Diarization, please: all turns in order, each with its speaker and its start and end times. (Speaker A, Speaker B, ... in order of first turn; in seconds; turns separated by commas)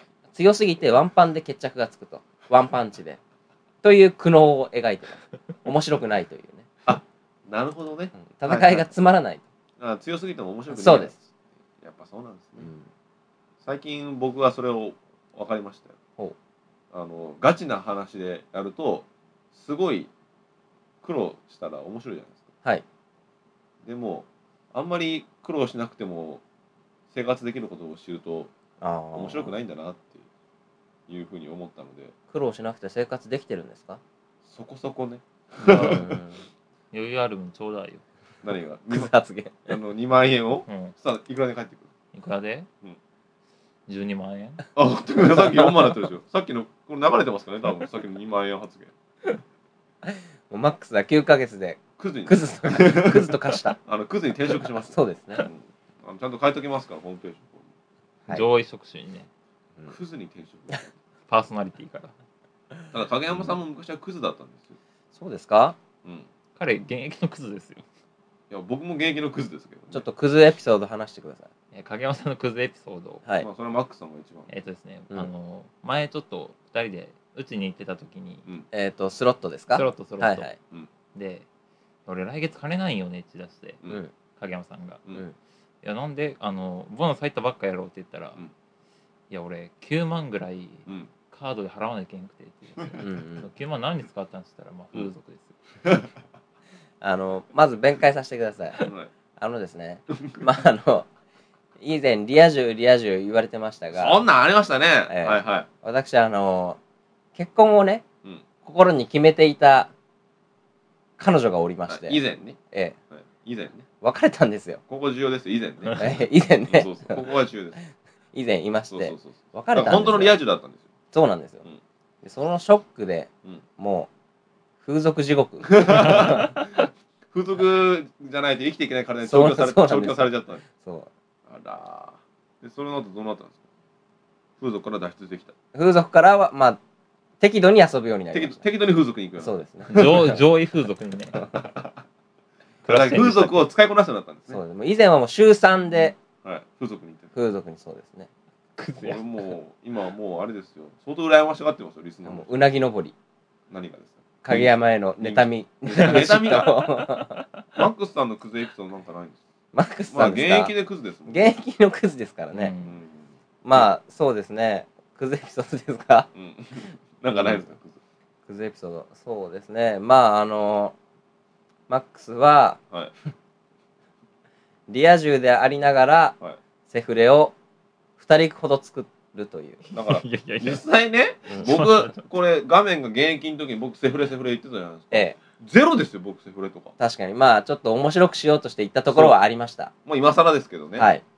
Speaker A: 0.3-3.2, Speaker A: 3.8-6.7, Speaker B: 6.8-8.9, Speaker A: 8.2-9.4, Speaker B: 9.8-11.3, Speaker A: 10.7-11.1, Speaker B: 11.8-12.7, Speaker A: 12.6-12.9, Speaker B: 13.6-15.9, Speaker B: 16.9-20.1, Speaker B: 21.0-22.4, Speaker B: 23.8-26.4, Speaker B: 27.1-28.5, Speaker A: 28.8-29.5, Speaker B: 29.1-30.2, Speaker B: 31.1-32.1, Speaker A: 32.3-34.0, Speaker B: 34.5-36.1, Speaker A: 35.6-36.4, Speaker C: 35.7-36.0, Speaker C: 36.9-38.0, Speaker B: 38.4-39.1, Speaker A: 38.9-39.8, Speaker B: 39.7-41.9, Speaker C: 40.7-40.9, Speaker C: 42.1-42.7, Speaker C: 43.9-44.6, Speaker B: 44.7-48.9, Speaker A: 50.0-53.8, Speaker B: 52.0-57.7, Speaker A: 54.8-55.5, Speaker C: 58.3-59.3, Speaker B: 59.9-60.9, Speaker C: 61.3-62.1, Speaker B: 62.9-64.8, Speaker A: 65.1-65.8, Speaker C: 66.6-67.8, Speaker B: 68.5-70.0, Speaker A: 69.9-71.5, Speaker C: 71.7-73.2, Speaker B: 73.4-74.5, Speaker C: 74.5-78.4, Speaker A: 78.7-80.5, Speaker C: 79.7-80.5, Speaker C: 81.1-81.5, Speaker C: 82.0-83.8, Speaker A: 83.9-84.1, Speaker C: 84.3-85.0, Speaker C: 85.8-88.4, Speaker C: 89.3-95.5, Speaker A: 93.0-93.5, Speaker A: 97.0-98.9, Speaker B: 98.8-99.1, Speaker A: 99.4-101.1, Speaker A: 101.8-104.2, Speaker B: 103.9-105.7, Speaker A: 105.1-106.8, Speaker A: 107.3-108.0, Speaker A: 108.6-109.9, Speaker A: 111.2-112.2, Speaker B: 111.9-112.6, Speaker B: 113.1-113.8, Speaker A: 114.0-114.8, Speaker B: 114.9-116.0, Speaker A: 116.0-117.2, Speaker B: 116.7-117.8, Speaker A: 118.3-120.4, Speaker B: 118.9-120.8, Speaker A: 121.1-121.6, Speaker A: 122.2-124.1, Speaker A: 124.8-126.6, Speaker B: 125.7-126.6, Speaker B: 127.3-130.6, Speaker A: 129.2-131.1, Speaker B: 131.5-133.6, Speaker B: 134.6-135.5, Speaker A: 135.7-136.8, Speaker A: 137.4-138.6, Speaker B: 138.3-140.2, Speaker A: 139.4-140.4, Speaker C: 139.9-141.4, Speaker B: 141.5-142.0, Speaker C: 142.8-143.6, Speaker B: 142.8-144.6, Speaker A: 144.5-146.2, Speaker B: 146.4-147.3, Speaker A: 147.3-148.3, Speaker C: 148.8-149.5, Speaker B: 149.0-152.6, Speaker A: 152.2-153.1, Speaker B: 153.7-156.8, Speaker A: 154.4-157.4, Speaker C: 156.8-157.4, Speaker B: 157.7-159.4, Speaker A: 159.7-160.7, Speaker B: 160.1-161.5, Speaker A: 161.3-162.7, Speaker C: 162.5-162.9, Speaker B: 162.8-163.9, Speaker A: 163.6-166.3, Speaker B: 166.3-168.0, Speaker A: 168.5-170.9, Speaker A: 171.9-172.8, Speaker A: 174.9-176.3, Speaker A: 176.9-177.5, Speaker A: 178.2-179.8, Speaker C: 179.9-180.8, Speaker B: 179.9-186.9, Speaker C: 181.6-182.2, Speaker A: 185.1-185.4, Speaker A: 187.0-189.9, Speaker B: 189.1-189.3, Speaker B: 190.0-191.1, Speaker A: 191.0-191.2